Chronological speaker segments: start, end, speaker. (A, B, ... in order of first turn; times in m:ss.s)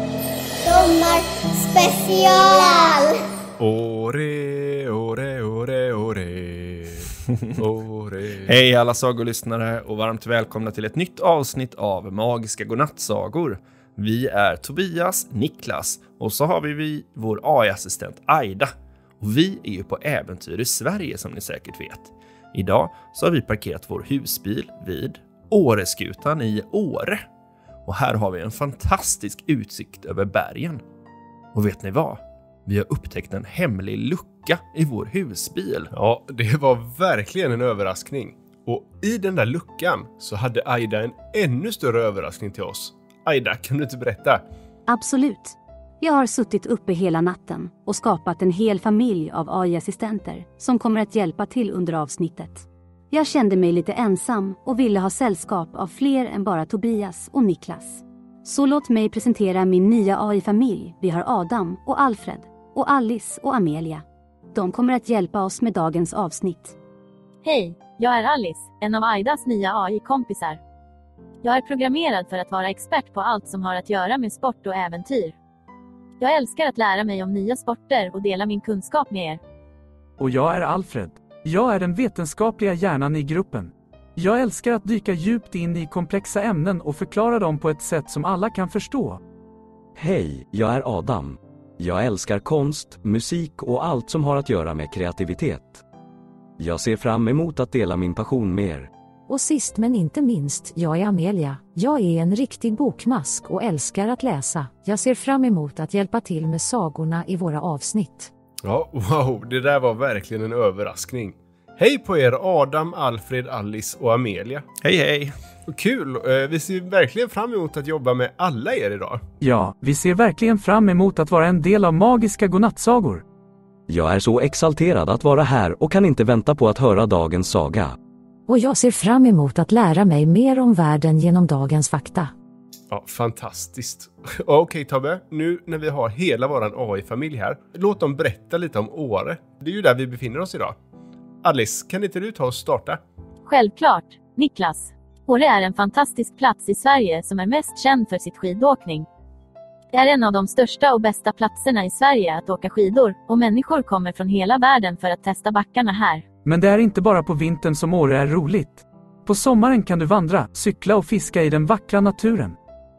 0:00.6-0:03.2 A
0:03.6-0:08.5 B
0:08.4-0:18.7 C
0:19.2-0:27.2 C
0:27.9-0:30.8 C
0:31.5-0:35.9 C
0:35.9-0:44.4 B
0:44.9-1:06.8 D
1:07.4-1:10.6 E
1:11.4-1:15.4 E
1:16.2-1:19.4 E
1:20.2-1:29.2 F
1:30.0-1:35.8 G
1:36.6-1:38.9 G
1:39.3-1:48.3 H
1:48.6-1:54.6 B
1:54.8-1:55.3 C
1:55.7-1:59.2 B
1:59.4-2:03.2 F
2:03.9-2:08.0 G
2:08.5-2:12.3 H
2:12.9-2:20.8 B
2:21.4-2:23.0 B
2:23.4-2:29.1 E
2:29.9-2:36.2 E
2:36.4-2:42.6 F